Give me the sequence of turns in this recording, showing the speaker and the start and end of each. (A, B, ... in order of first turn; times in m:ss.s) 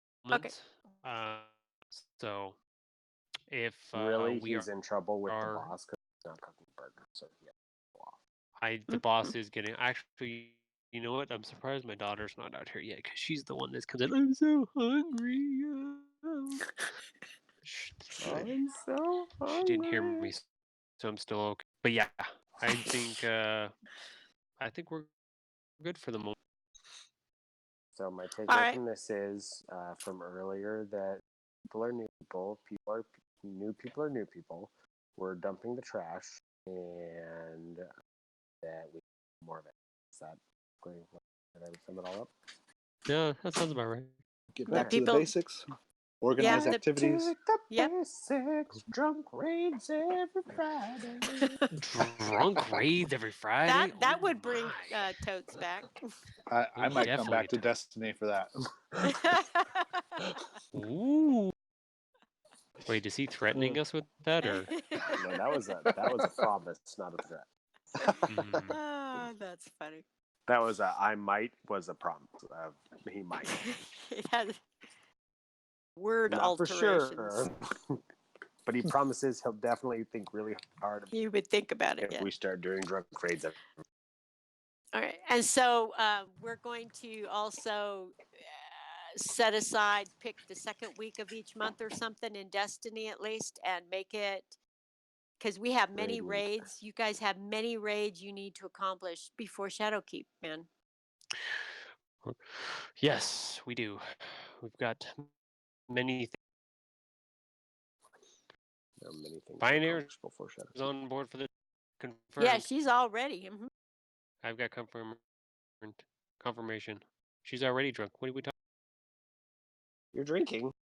0:00.2-0:02.6 A
0:03.5-0:04.7 A
0:03.9-0:08.2 B
0:05.3-0:05.7 A
0:08.6-0:16.6 A
0:08.9-0:09.3 C
0:17.6-0:18.5 A
0:18.2-0:20.3 B
0:19.5-0:20.4 A
0:21.0-0:23.7 A
0:24.6-0:25.1 A
0:25.8-0:26.4 A
0:27.9-0:37.9 B
0:28.5-0:28.8 C
0:38.6-0:42.3 B
0:43.1-0:44.2 A
0:44.5-0:45.6 D
0:44.7-0:45.0 B
0:44.7-0:45.3 C
0:46.2-0:47.3 D
0:46.4-0:46.8 C
0:46.4-0:51.6 B
0:51.4-0:51.6 C
0:51.8-0:55.0 A
0:53.6-0:56.0 C
0:56.5-0:58.5 D
0:56.8-0:57.7 A
0:59.0-1:00.2 C
1:00.7-1:01.5 A
1:02.8-1:04.7 A
1:03.5-1:03.8 B
1:04.4-1:05.6 C
1:05.1-1:07.5 B
1:08.0-1:08.3 B
1:08.3-1:08.8 A
1:08.7-1:10.0 C
1:10.5-1:13.8 B
1:13.5-1:14.6 C
1:16.0-1:17.5 C
1:16.3-1:18.0 B
1:18.6-1:21.1 B
1:21.1-1:22.3 C
1:22.0-1:23.6 B
1:24.9-1:34.6 C
1:35.4-1:40.7 C
1:36.0-1:36.7 B
1:41.4-1:41.7 A
1:42.2-1:45.3 A
1:45.9-1:46.4 A
1:49.0-1:50.9 B
1:49.6-1:50.1 A
1:50.7-1:52.7 A
1:52.4-1:53.7 C
1:54.4-1:55.2 A
1:55.8-1:58.5 A
2:00.1-2:00.7 B